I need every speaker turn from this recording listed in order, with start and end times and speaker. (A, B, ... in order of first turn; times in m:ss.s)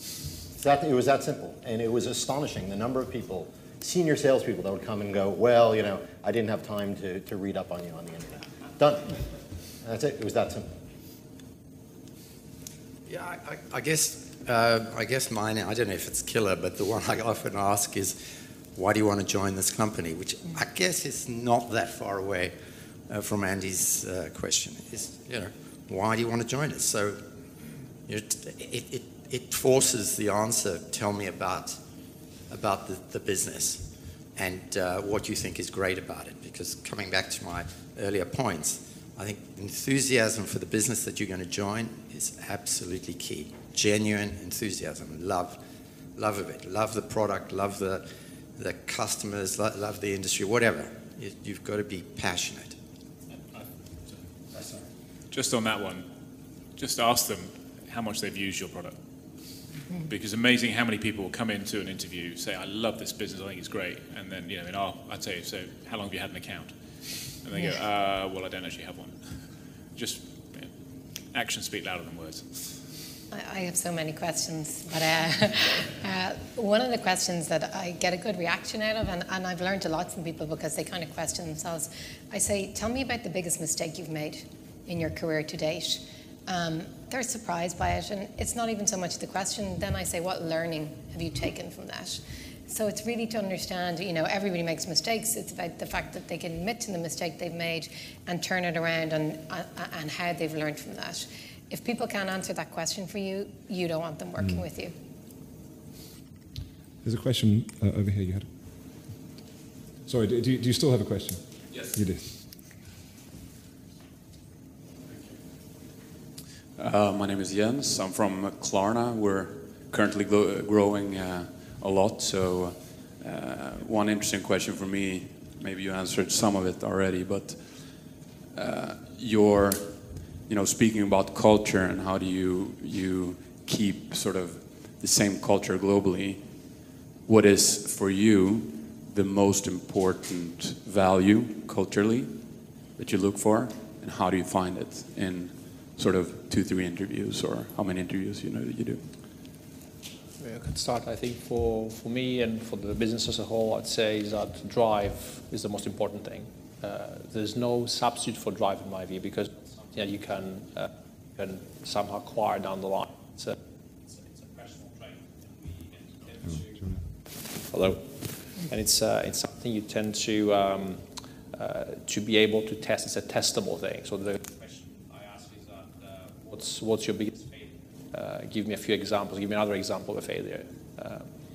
0:00.6-0:09.1 A
0:09.8-0:10.7 A
0:13.0-0:18.2 B
0:18.7-0:22.5 B
0:23.1-0:27.2 B
0:28.1-0:31.8 B
0:32.5-0:45.6 B
0:46.2-0:52.8 B
0:55.3-0:56.0 C
0:56.8-0:59.0 C
1:00.0-1:10.7 C
1:11.3-1:12.6 C
1:13.3-1:44.9 D
1:44.4-1:44.6 E
1:47.0-1:49.0 E
1:50.0-1:52.4 E
1:56.8-2:29.1 F
2:30.4-2:46.9 G
2:46.4-2:47.1 E
2:47.4-3:01.3 G